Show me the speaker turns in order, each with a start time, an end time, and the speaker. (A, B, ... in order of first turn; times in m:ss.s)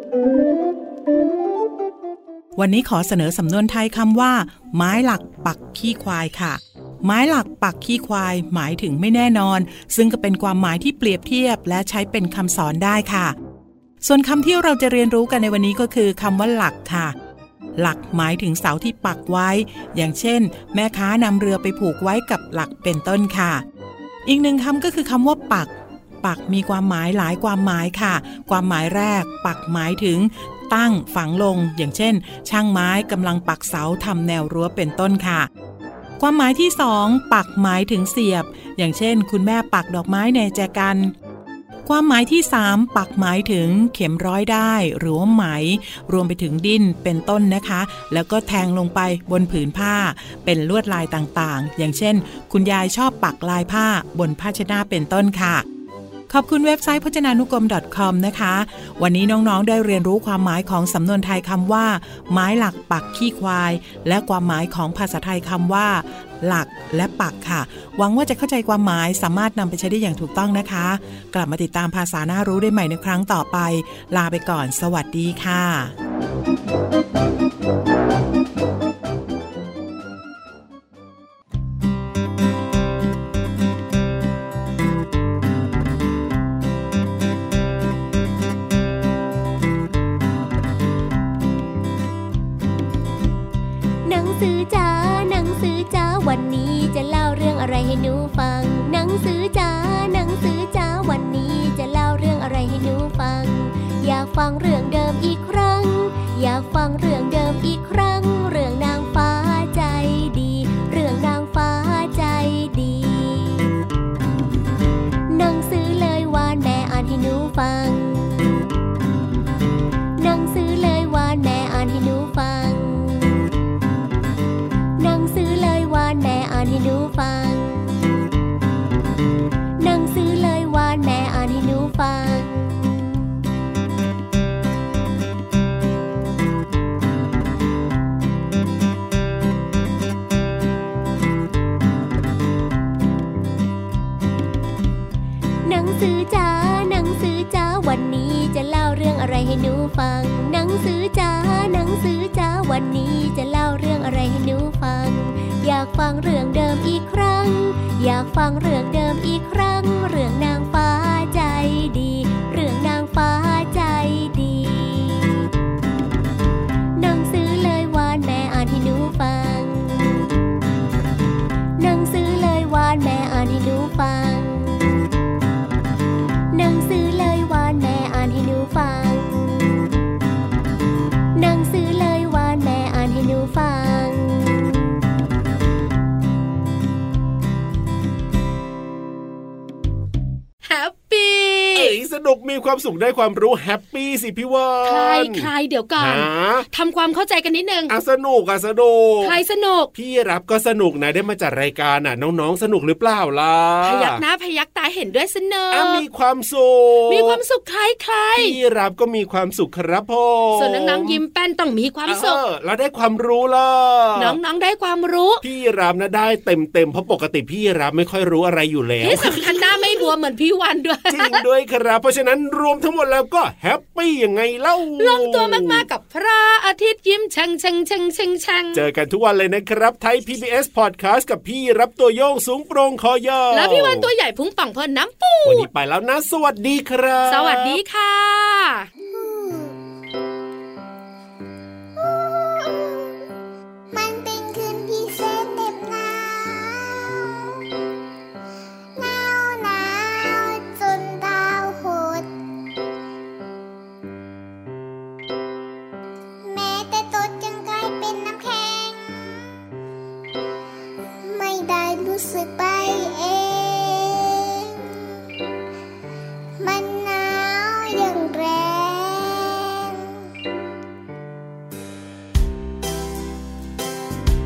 0:02.5-0:13.3 A
0:14.0-0:17.1 A
0:17.8-0:23.6 A
0:24.2-0:35.5 A
0:36.2-0:41.1 A
0:41.8-0:55.6 A
0:56.3-1:15.9 A
1:34.0-1:53.8 B
1:55.3-1:58.5 B
2:00.2-2:03.5 B
2:05.0-2:08.0 B
2:09.8-2:13.3 B
2:25.6-2:45.5 B
2:47.0-2:50.3 B
2:51.8-2:55.0 B
2:56.5-2:59.7 B
3:01.3-3:04.9 B
3:10.6-3:11.9 C
3:11.7-3:16.7 D
3:14.8-3:17.9 C
3:17.9-3:19.4 D
3:19.2-3:19.9 C
3:19.9-3:24.2 D
3:23.8-3:26.0 C
3:25.7-3:27.4 D
3:27.1-3:28.6 C
3:28.3-3:31.2 D
3:30.5-3:32.4 C
3:32.0-3:34.4 D
3:34.2-3:35.4 C
3:35.4-3:39.9 D
3:39.0-3:41.4 C
3:41.1-3:45.8 D
3:45.0-3:48.9 C
3:48.7-3:54.1 D
3:53.5-3:55.7 C
3:55.4-3:57.8 D
3:57.3-3:58.9 C
3:59.0-3:59.8 E
4:02.0-4:03.1 E
4:03.9-4:07.6 E
4:09.0-4:12.3 E
4:16.4-4:19.2 E
4:21.2-4:24.7 E
4:26.6-4:30.1 E